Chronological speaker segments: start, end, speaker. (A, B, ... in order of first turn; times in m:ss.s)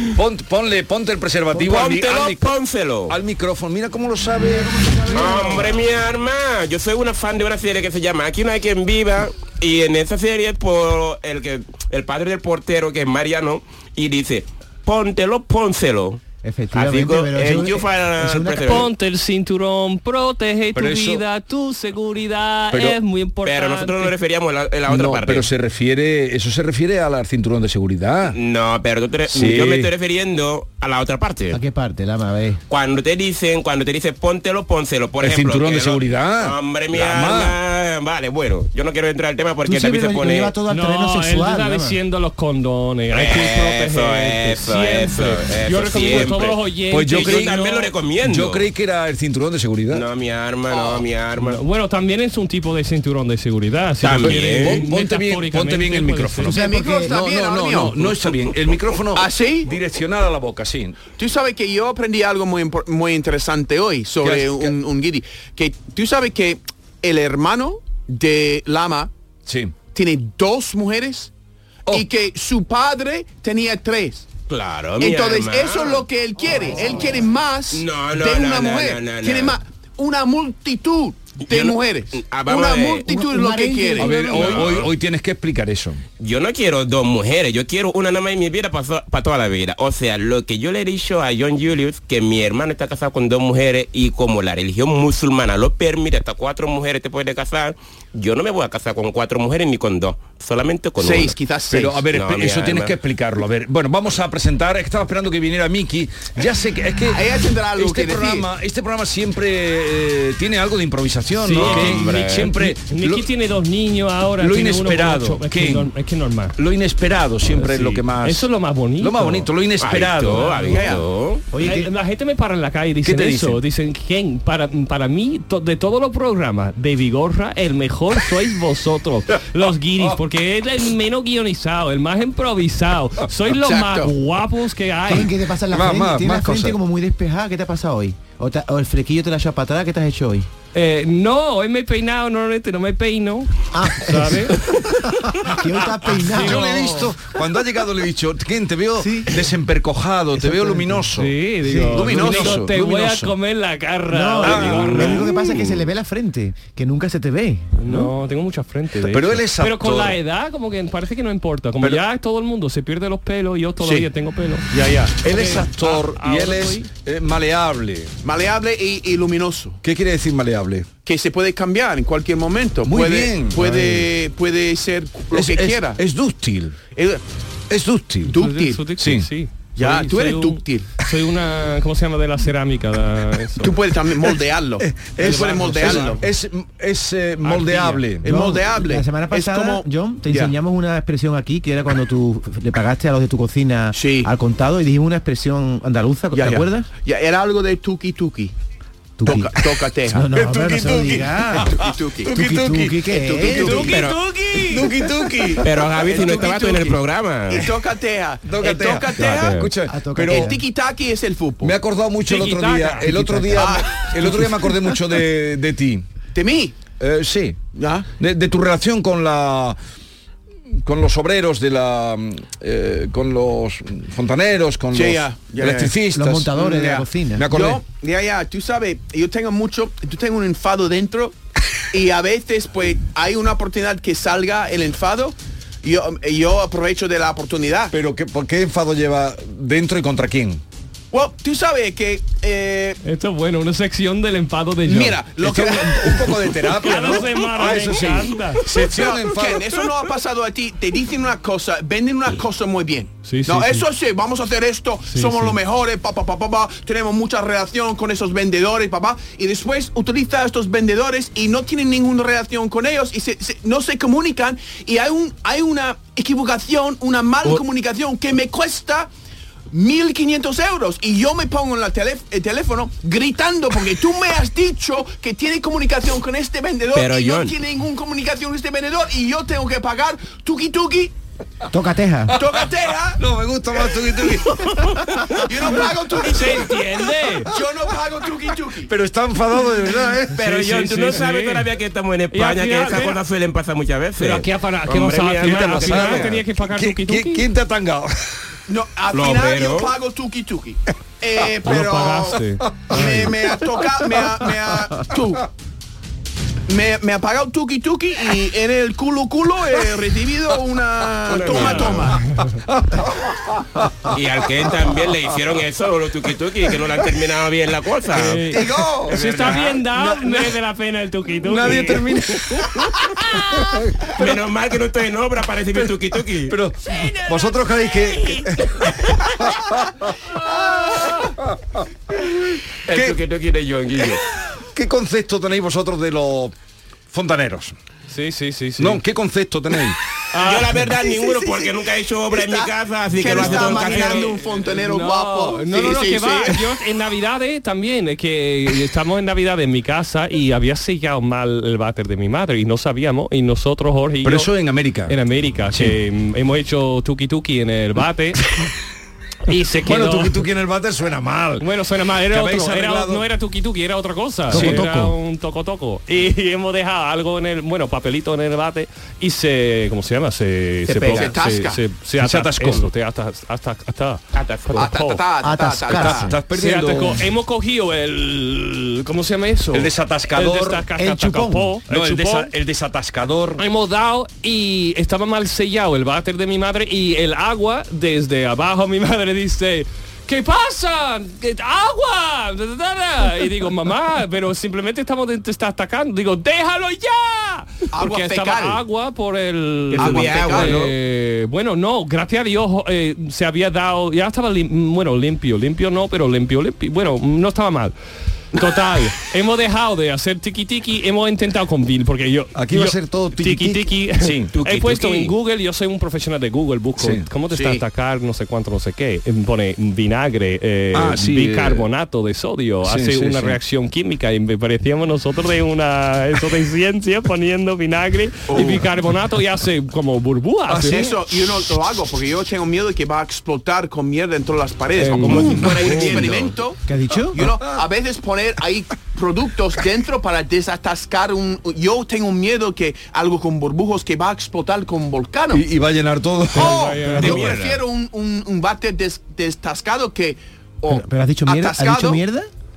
0:00.1-0:02.5 A
0:01.6-0:03.2 B
0:03.1-0:05.2 A
0:04.4-0:05.8 C
0:05.1-0:16.2 B
0:16.4-0:18.9 C
0:16.7-0:18.9 B
0:18.6-0:24.1 D
0:20.8-0:21.2 A
0:22.7-0:23.0 A
0:23.4-0:25.5 B
0:24.9-0:28.4 A
0:28.3-0:31.6 B
0:29.3-0:29.9 A
0:31.5-0:32.6 C
0:32.7-0:40.5 B
0:35.2-0:37.6 A
0:39.7-0:42.0 C
0:40.7-0:47.7 D
0:43.1-0:46.6 B
0:46.9-0:50.0 A
0:47.1-0:48.6 B
0:49.9-0:51.6 B
0:50.7-0:51.1 E
0:51.4-0:56.5 D
0:54.0-0:54.8 B
0:54.2-1:01.0 A
0:56.5-0:57.2 C
0:56.5-0:58.3 E
0:59.1-0:59.7 E
1:01.2-1:09.1 E
1:04.2-1:04.8 A
1:09.4-1:09.8 A
1:09.9-1:11.3 E
1:11.9-1:14.3 E
1:14.5-1:16.0 B
1:15.0-1:24.1 E
1:16.6-1:17.1 C
1:17.7-1:19.6 B
1:21.4-1:23.2 B
1:23.1-1:24.8 C
1:24.0-1:26.0 A
1:24.2-1:24.9 B
1:26.2-1:41.3 B
1:41.0-1:42.0 E
1:41.7-1:47.2 A
1:42.1-1:42.9 B
1:47.1-1:48.4 E
1:47.8-1:53.3 A
1:51.4-1:56.6 D
1:51.5-1:52.5 B
1:54.4-1:55.9 A
1:56.6-1:58.5 A
1:57.5-1:59.5 D
1:59.0-2:00.6 A
1:59.8-2:01.4 B
2:00.3-2:00.8 D
2:00.6-2:01.0 E
2:01.5-2:01.9 C
2:01.6-2:15.3 D
2:03.0-2:03.6 A
2:13.5-2:14.1 E
2:15.1-2:20.5 C
2:15.7-2:16.8 A
2:20.7-2:24.6 D
2:23.7-2:26.6 C
2:26.1-2:31.3 A
2:26.1-2:27.1 D
2:29.0-2:29.4 C
2:30.4-2:31.1 C
2:31.2-2:35.3 D
2:31.6-2:32.4 C
2:31.9-2:33.3 A
2:32.1-2:32.6 E
2:34.1-2:37.7 C
2:34.4-2:35.5 A
2:37.8-2:44.7 D
2:39.1-2:40.2 A
2:43.8-2:44.1 E
2:44.7-2:45.2 E
2:45.2-2:48.1 A
2:45.2-2:46.9 D
2:48.2-2:49.8 E
2:49.8-2:50.9 A
2:51.0-2:56.0 E
2:52.8-2:54.1 A
2:55.3-2:56.8 A
2:56.9-2:57.2 E
2:57.7-2:58.4 A
2:58.3-2:58.8 E
2:58.3-3:03.8 D
2:59.0-2:59.3 A
2:59.8-3:00.9 E
3:03.6-3:06.2 E
3:04.8-3:08.3 A
3:05.2-3:06.2 D
3:07.4-3:08.0 D
3:08.2-3:10.5 E
3:08.2-3:16.9 C
3:13.9-3:14.3 E
3:16.3-3:18.5 E
3:19.2-3:23.9 C
3:19.2-3:20.2 E
3:20.1-3:23.4 A
3:21.6-3:22.4 E
3:23.1-3:24.0 E
3:23.4-3:24.9 D
3:23.6-3:24.2 B
3:24.7-3:26.6 A
3:25.4-3:26.9 E
3:25.6-3:27.7 B
3:27.5-3:31.7 E
3:28.4-3:30.6 A
3:29.1-3:29.4 B
3:29.8-3:30.6 C
3:31.6-3:36.1 A
3:32.3-3:33.1 D
3:33.0-3:34.8 C
3:33.5-3:34.1 E
3:36.3-3:36.8 E
3:37.0-3:37.6 A
3:37.7-3:38.1 E
3:38.2-3:39.8 A
3:40.8-3:46.5 A
3:44.9-3:46.0 E
3:46.1-3:47.5 C
3:46.5-3:51.3 E
3:47.3-3:47.8 A
3:51.9-3:57.9 E
3:57.9-4:00.6 A
4:01.1-4:03.0 E
4:03.0-4:05.2 D
4:04.9-4:09.7 A
4:04.9-4:06.2 E
4:06.7-4:08.7 D
4:08.8-4:29.1 E
4:13.2-4:13.8 D
4:15.1-4:15.6 D
4:29.7-4:41.1 E
4:36.9-4:37.5 B
4:41.7-4:42.4 C
4:42.4-4:43.2 E
4:43.2-4:45.6 A
4:45.4-4:46.7 E
4:46.2-4:47.5 D
4:47.5-4:48.9 E
4:48.8-4:50.4 A
4:50.3-4:51.7 D
4:50.4-4:56.3 B
4:52.3-4:53.2 D
4:54.2-4:57.4 D
4:55.4-4:58.3 A
4:58.7-5:02.4 E
4:59.1-4:59.9 B
5:01.6-5:03.3 D
5:02.9-5:05.4 E
5:06.7-5:12.2 E
5:11.3-5:12.1 B
5:11.4-5:12.6 D
5:12.7-5:14.1 A
5:14.1-5:18.4 B
5:18.1-5:22.7 D
5:18.5-5:20.6 A
5:18.6-5:19.0 E
5:19.1-5:19.8 B
5:21.4-5:22.9 A
5:23.5-5:24.4 A
5:24.1-5:27.1 B
5:25.7-5:29.9 A
5:28.3-5:29.2 B
5:32.9-5:33.2 A
5:32.9-5:34.2 B
5:34.5-5:36.5 A
5:37.1-5:37.8 A
5:38.1-5:39.0 D
5:38.8-5:40.0 A
5:40.3-5:40.8 D
5:40.4-5:44.3 B
5:41.1-5:41.7 E
5:42.3-5:46.6 E
5:43.3-5:54.5 D
5:54.2-5:55.1 A
5:55.1-5:58.4 D
5:55.7-5:56.0 A
5:59.4-6:00.4 D
5:59.8-6:01.7 A
6:01.6-6:15.2 D
6:02.3-6:03.2 A
6:04.5-6:05.1 C
6:04.5-6:04.9 A
6:11.0-6:11.8 E
6:12.2-6:12.9 A
6:14.3-6:14.8 B
6:14.7-6:16.3 E
6:15.4-6:16.3 C
6:15.9-6:17.2 A
6:16.5-6:22.5 D
6:19.7-6:20.9 A
6:21.0-6:21.8 C
6:21.9-6:23.6 A
6:23.6-6:47.9 D
6:37.9-6:38.8 E
6:39.9-6:40.9 B
6:40.0-6:40.9 E
6:48.5-7:11.1 D
6:52.6-6:54.5 A
6:54.5-6:55.3 B
6:57.0-6:57.3 A
6:57.5-6:57.8 E
7:00.9-7:01.9 A
7:02.8-7:03.6 A
7:08.5-7:08.8 E
7:10.7-7:11.2 A
7:10.8-7:25.6 E
7:15.0-7:15.6 D
7:15.2-7:16.5 B
7:15.4-7:16.5 A
7:16.9-7:17.4 C
7:17.3-7:17.8 A
7:25.5-7:27.2 A
7:26.5-7:27.6 D
7:26.5-7:32.2 E
7:27.2-7:27.8 B
7:30.9-7:32.5 C